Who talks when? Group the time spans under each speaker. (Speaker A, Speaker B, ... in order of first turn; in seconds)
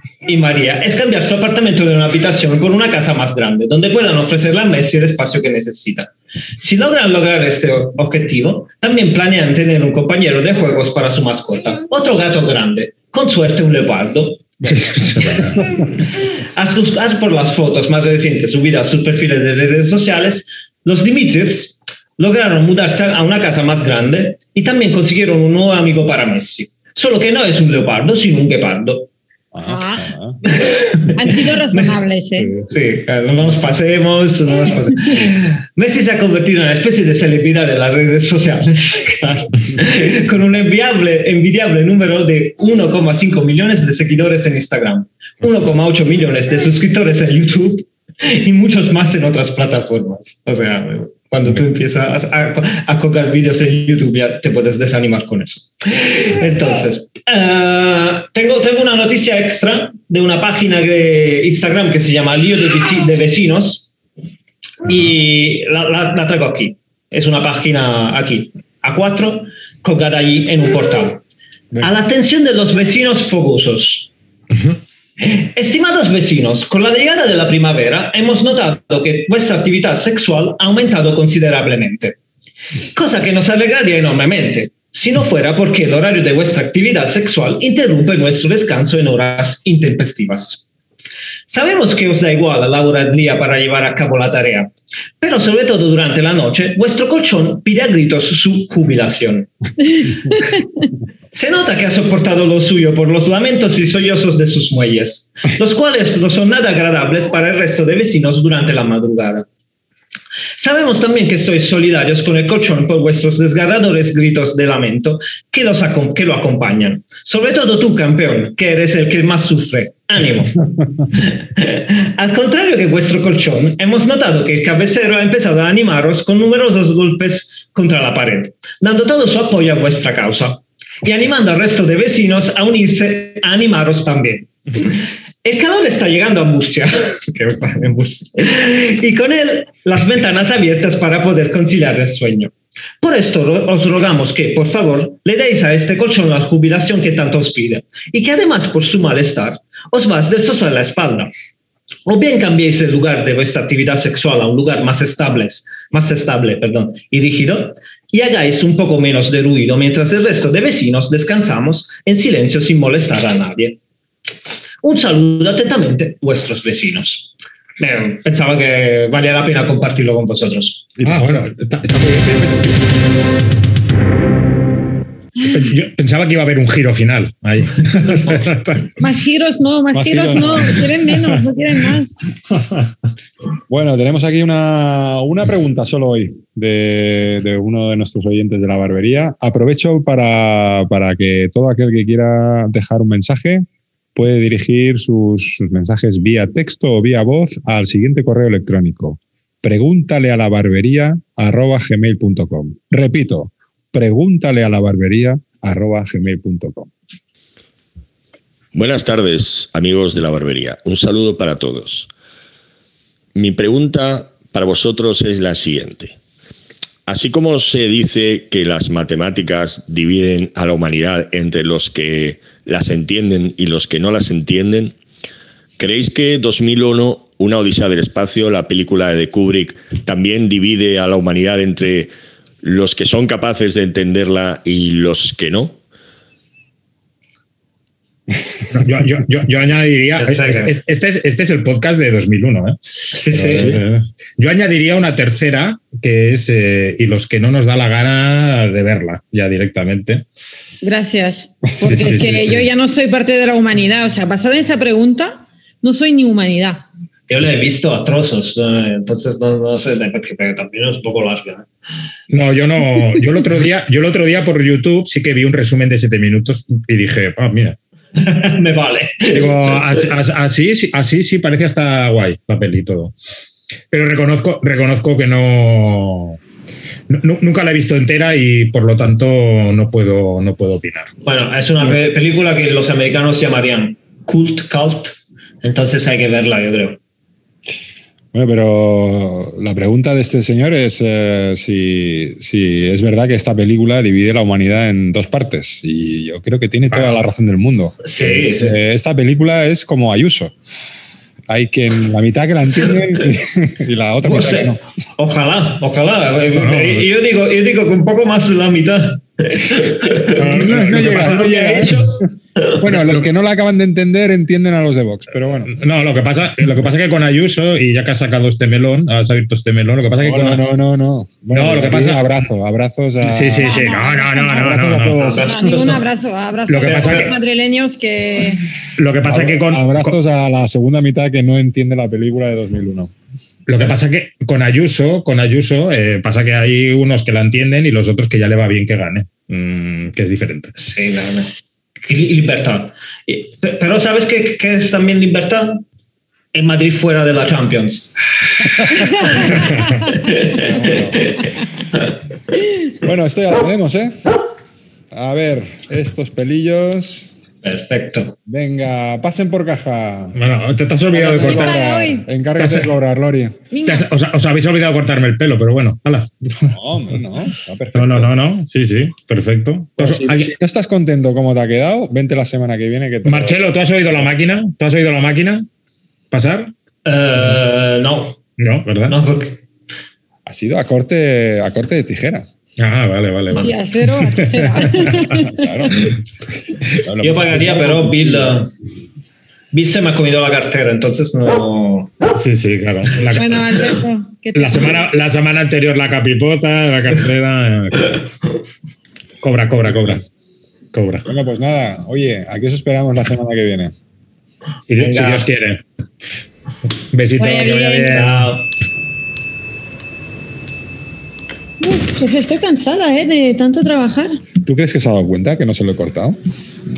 Speaker A: 0.3-15.5, 16.2-29.1, 30.5-31.9, 32.7-64.0, 64.8-71.2, 71.8-74.1, 75.2-82.2, 82.9-90.7, 91.5-100.2, 101.3-109.5, 110.6-151.3, 152.1-163.8, 164.8-170.9, 240.2-240.8, 243.1-243.8, 257.3-261.7, 268.2-270.0, 281.2-287.0, 298.0-298.8, 304.2-312.8, 325.1-326.0, 326.8-327.4, 340.8-345.8, 346.5-348.1, 349.1-349.5, 350.2-351.5, 357.6-358.4, 377.1-378.4, 379.1-379.6, 387.2-388.7, 389.7-392.1, 405.0-405.5, 408.1-408.7
Speaker B: 14.6-15.6, 171.0-172.9, 175.4-179.0, 238.7-242.8, 243.3-250.2, 251.8-252.7, 262.3-267.8, 269.3-273.1, 273.9-276.4, 277.1-281.1, 306.5-307.1, 310.3-312.0, 315.7-320.6, 321.5-322.2, 323.2-325.4, 326.7-327.3, 329.0-330.2, 333.7-340.8, 349.5-349.8, 360.4-361.8, 362.6-362.9, 363.9-366.8, 367.9-370.5, 373.2-375.7, 376.3-376.7, 378.6-379.2, 382.8-385.3, 392.4-393.6, 394.6-398.2, 399.4-400.2, 400.9-401.3, 404.9-405.8, 407.1-408.5
Speaker C: 29.5-30.4, 171.0-171.4, 179.9-180.9, 183.7-206.9, 288.3-300.6, 301.5-304.8, 310.4-312.2, 312.8-315.7, 320.2-323.8, 324.4-325.9, 329.2-333.1, 350.5-351.3, 353.0-354.1, 355.1-357.3, 358.5-360.4, 361.1-363.6, 366.7-368.3, 370.0-373.6, 380.5-382.5, 385.3-386.1, 387.0-388.6, 401.3-403.9, 414.6-416.4
Speaker D: 29.6-30.1, 31.1-32.5, 179.0-182.1, 250.8-256.9, 323.6-324.7, 325.4-328.6, 361.4-362.2, 363.7-364.1, 383.6-386.1, 393.4-395.1, 407.4-408.3, 411.8-414.4
Speaker E: 208.7-212.1, 213.3-216.2, 217.1-225.0, 225.8-232.1, 232.6-235.8